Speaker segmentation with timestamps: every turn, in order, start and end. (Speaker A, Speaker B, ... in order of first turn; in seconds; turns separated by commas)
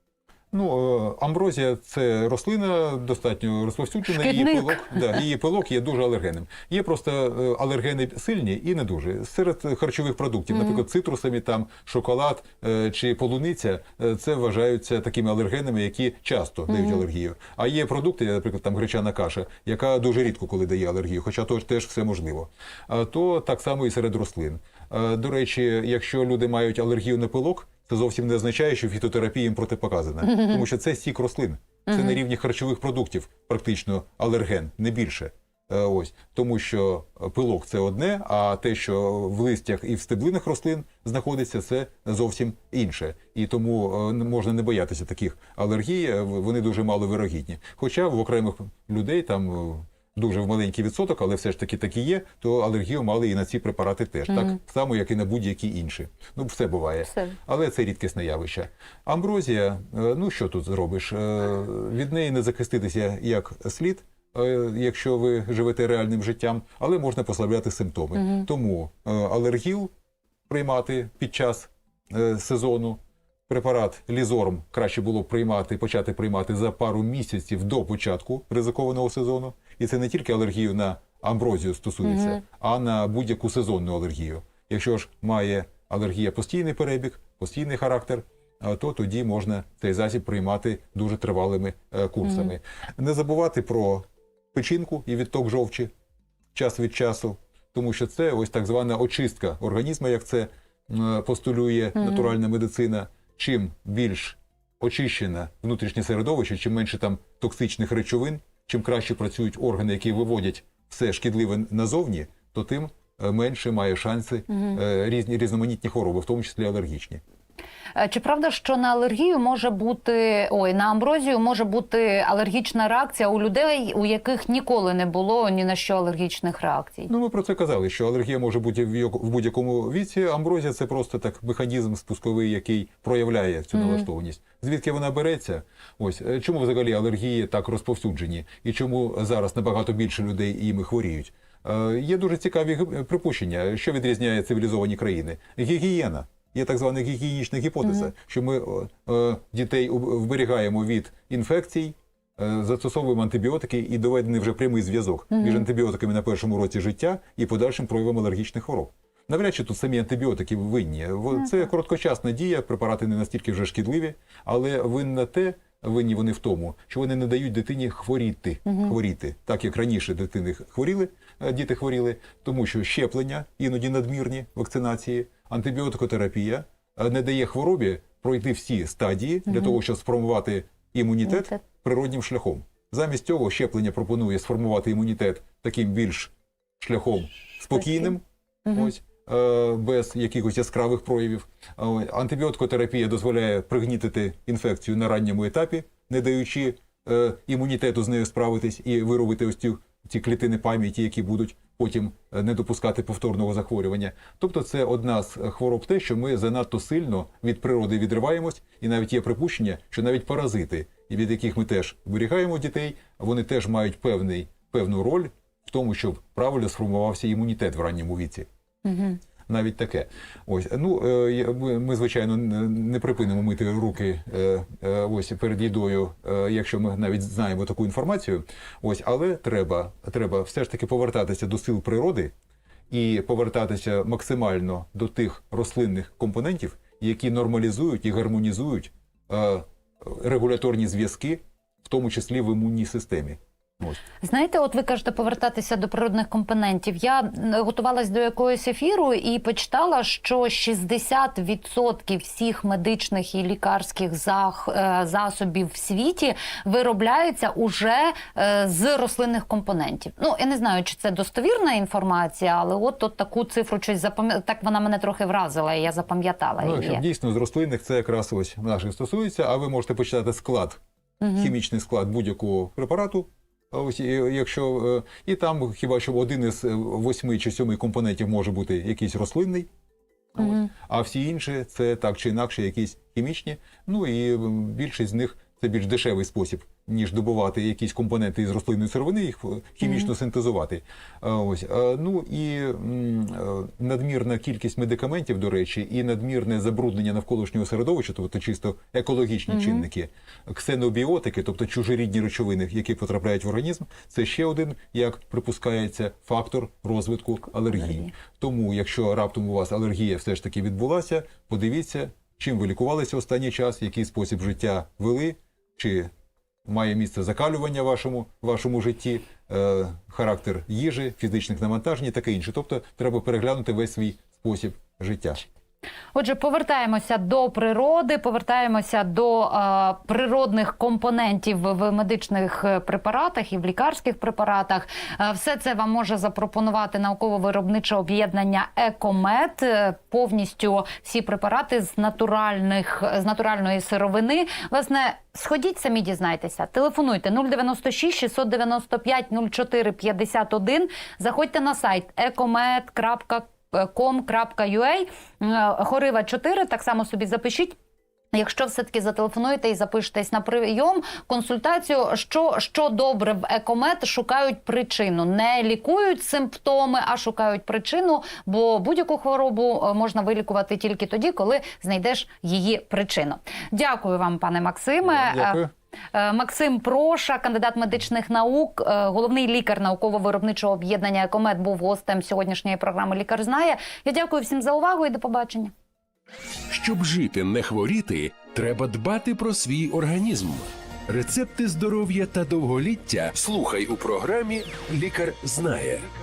Speaker A: 0.5-69.9, Speaker B: 4.1-5.1, Speaker B: 16.7-17.0, Speaker B: 30.3-30.6, Speaker B: 31.9-32.1, Speaker A: 70.5-95.9, Speaker A: 96.5-117.2, Speaker B: 118.0-127.1, Speaker A: 127.1-218.5, Speaker B: 155.3-155.6, Speaker B: 168.7-168.9, Speaker B: 218.8-219.2, Speaker A: 219.5-232.3, Speaker A: 232.9-244.0, Speaker B: 244.2-267.0, Speaker A: 266.6-270.8, Speaker B: 271.2-271.5, Speaker A: 271.4-279.7, Speaker A: 280.3-316.1, Speaker B: 280.4-280.7, Speaker B: 289.8-290.1, Speaker B: 299.5-299.8, Speaker A: 316.6-325.4, Speaker B: 326.1-357.8, Speaker B: 358.3-375.6, Speaker A: 375.0-375.7, Speaker B: 376.1-385.7, Speaker C: 386.7-396.1